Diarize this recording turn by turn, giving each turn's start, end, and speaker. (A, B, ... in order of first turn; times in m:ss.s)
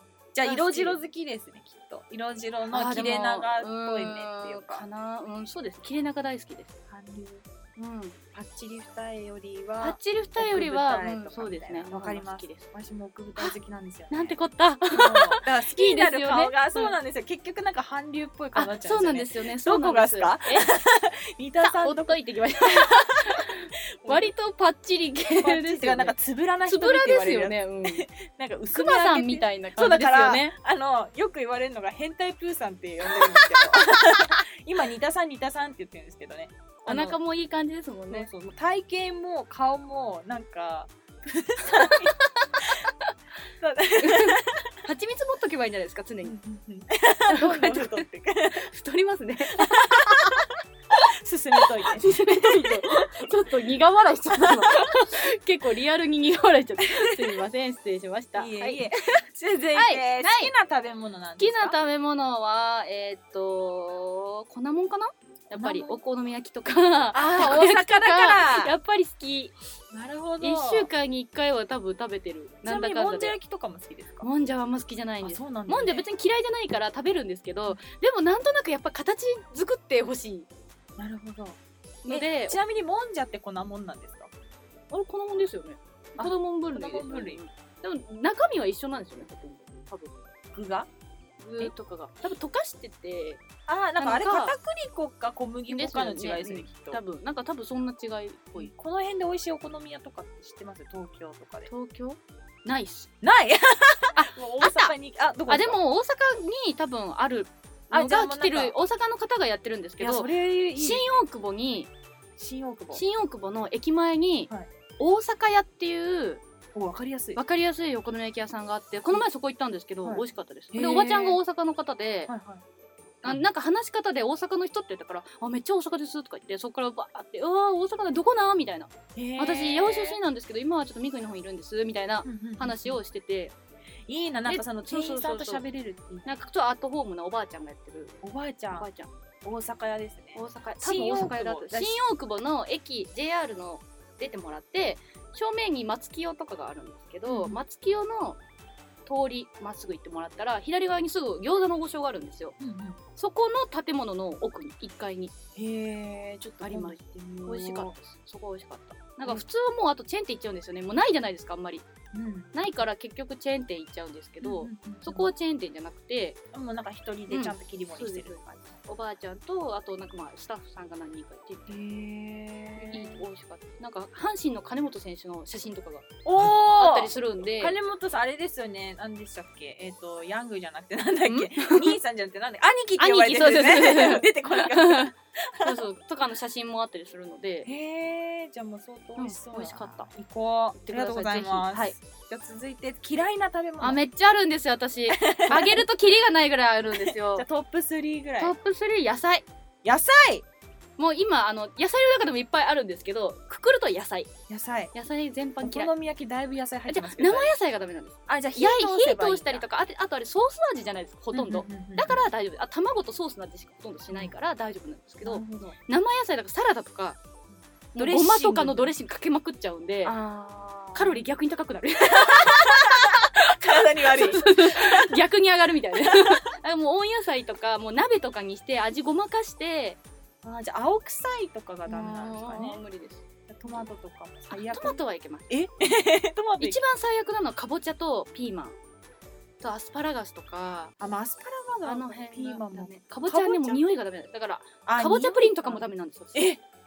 0:00.3-0:04.8 A
0:00.4-0:01.0 B
0:02.7-0:06.8 B
0:06.9-0:07.4 A
0:07.8-0:08.2 B
0:08.3-0:14.4 A
0:09.8-0:12.7 B
0:14.1-0:17.0 B
0:14.9-0:23.4 A
0:18.6-0:20.7 B
0:21.6-0:28.1 B
0:24.0-0:24.3 A
0:25.3-0:37.2 A
0:28.7-0:30.5 B
0:36.9-0:38.3 B
0:38.1-0:42.2 A
0:41.6-0:43.1 B
0:43.6-0:44.7 A
0:44.0-0:46.4 B
0:46.2-0:48.7 A
0:47.3-0:50.4 B
0:49.6-0:53.3 A
0:51.6-0:58.9 B
0:54.3-0:55.1 A
0:57.0-0:57.3 A
0:58.4-1:01.8 A
0:59.7-1:00.5 B
1:01.4-1:09.5 B
1:05.5-1:06.0 A
1:07.1-1:08.8 A
1:09.9-1:10.9 A
1:10.4-1:13.4 B
1:12.6-1:14.3 A
1:14.2-1:20.5 B
1:15.2-1:16.1 A
1:21.0-1:24.3 A
1:22.0-1:22.6 B
1:24.9-1:30.1 B
1:26.2-1:27.4 A
1:30.5-1:30.9 A
1:31.4-1:33.4 B
1:33.7-1:37.0 A
1:34.0-1:34.6 B
1:35.7-1:38.7 B
1:38.6-1:41.7 A
1:41.7-1:43.1 B
1:43.2-1:45.8 A
1:44.2-1:44.9 B
1:45.5-1:51.9 B
1:47.9-1:48.7 A
1:50.0-1:51.2 A
1:52.4-1:53.0 A
1:52.9-1:56.4 B
1:56.7-1:57.4 A
1:57.4-2:02.3 B
2:00.0-2:01.4 A
2:02.3-2:02.6 A
2:03.2-2:13.5 B
2:09.2-2:10.2 A
2:12.2-2:13.0 A
2:14.1-2:16.3 A
2:14.5-2:15.6 B
2:16.2-2:18.2 B
2:18.2-2:18.9 A
2:18.7-2:19.1 B
2:19.4-2:22.0 A
2:20.4-2:28.4 B
2:27.3-2:27.6 A
2:29.1-2:32.6 B
2:32.6-2:33.0 A
2:33.2-2:35.3 B
2:35.6-2:37.9 A
2:36.6-2:41.9 B
2:42.1-2:42.5 A
2:42.5-2:46.4 B
2:44.4-2:45.3 A
2:46.5-2:48.8 A
2:47.3-2:51.8 B
2:51.7-2:53.2 A
2:52.8-2:56.2 B
2:56.2-3:05.8 A
2:56.7-2:57.8 B
3:01.3-3:02.0 B
3:03.0-3:07.7 B
3:07.6-3:14.0 A
3:09.2-3:10.1 B
3:10.8-3:12.0 B
3:13.8-3:17.5 B
3:15.1-3:15.8 A
3:17.1-3:18.6 A
3:18.4-3:19.5 B
3:19.8-3:20.4 A
3:21.0-3:24.3 B
3:24.5-3:24.9 A
3:24.9-3:25.9 B
3:25.6-3:27.6 A
3:26.9-3:37.2 B
3:28.3-3:29.6 A
3:31.3-3:32.2 A
3:35.2-3:35.8 A
3:37.9-3:40.2 B
3:38.0-3:38.9 A
3:40.0-3:41.2 A
3:40.9-3:50.0 B
3:42.1-3:45.1 A
3:46.0-3:46.4 A
3:50.4-3:52.8 A
3:51.9-3:53.8 B
3:53.5-3:56.8 A
3:54.5-3:55.5 B
3:56.6-3:58.8 B
3:59.6-4:00.9 B
4:01.0-4:03.8 A
4:01.8-4:06.6 B
4:04.9-4:06.6 A